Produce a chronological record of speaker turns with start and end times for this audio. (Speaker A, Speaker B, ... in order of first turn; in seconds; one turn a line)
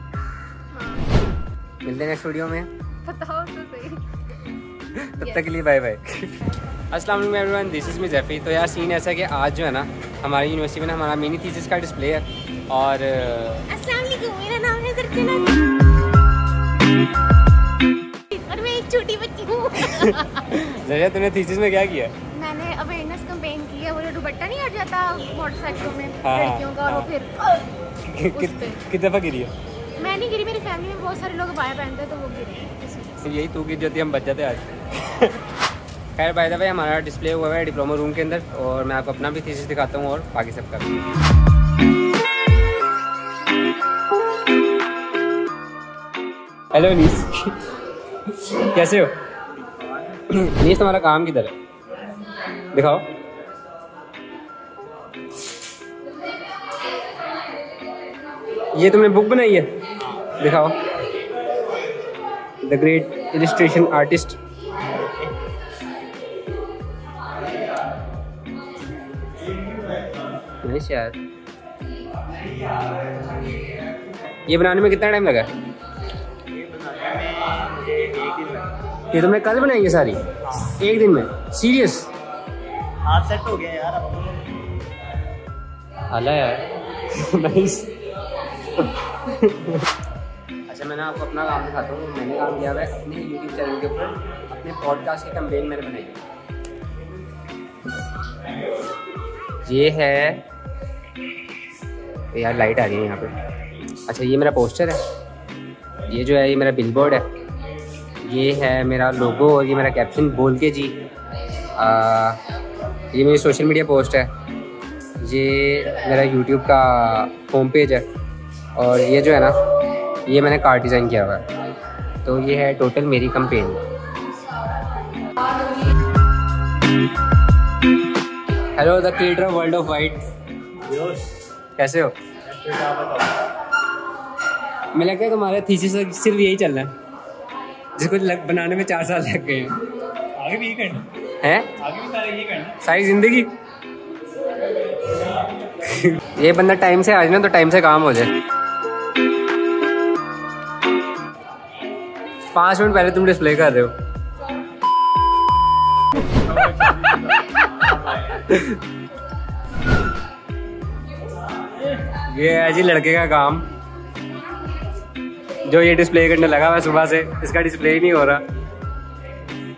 Speaker A: 0.7-1.1
Speaker B: 1.8-2.7
Speaker A: 3.0-4.0
Speaker B: 4.9-6.3
Speaker A: 5.2-5.6
Speaker B: 6.9-13.7
Speaker A: 13.7-15.6
Speaker A: 18.3-20.4
Speaker B: 19.9-22.1
Speaker A: 22.3-27.7
Speaker B: 26.2-27.1
Speaker B: 28.0-29.5
Speaker A: 28.3-28.8
Speaker A: 30.0-33.2
Speaker B: 33.2-35.4
Speaker B: 36.1-41.0
Speaker B: 46.7-47.6
Speaker B: 48.3-49.1
Speaker B: 50.3-51.5
Speaker B: 52.7-53.0
Speaker B: 58.7-59.7
Speaker B: 60.3-60.8
Speaker B: 62.6-64.4
Speaker B: 70.6-71.2
Speaker B: 74.5-75.5
Speaker C: 76.5-78.7
Speaker B: 79.1-82.1
Speaker C: 80.5-80.7
Speaker C: 83.0-84.3
Speaker B: 86.1-87.9
Speaker B: 89.3-89.8
Speaker B: 90.7-96.2
Speaker B: 99.6-100.4
Speaker B: 102.3-103.3
Speaker B: 104.1-105.0
Speaker B: 106.1-107.2
Speaker B: 108.2-110.9
Speaker B: 111.8-112.4
Speaker B: 113.1-114.3
Speaker B: 115.2-118.0
Speaker B: 118.8-119.5
Speaker B: 120.2-121.4
Speaker B: 122.2-123.8
Speaker B: 128.8-130.2
Speaker C: 130.8-131.3
Speaker B: 131.8-132.1
Speaker C: 132.4-133.4
Speaker B: 134.9-136.9
Speaker B: 138.0-139.7
Speaker C: 140.3-141.1
Speaker B: 141.4-141.8
Speaker C: 141.8-142.7
Speaker B: 142.8-143.5
Speaker B: 145.8-148.3
Speaker B: 152.5-153.9
Speaker B: 158.3-158.7
Speaker B: 162.1-163.6
Speaker B: 165.7-168.4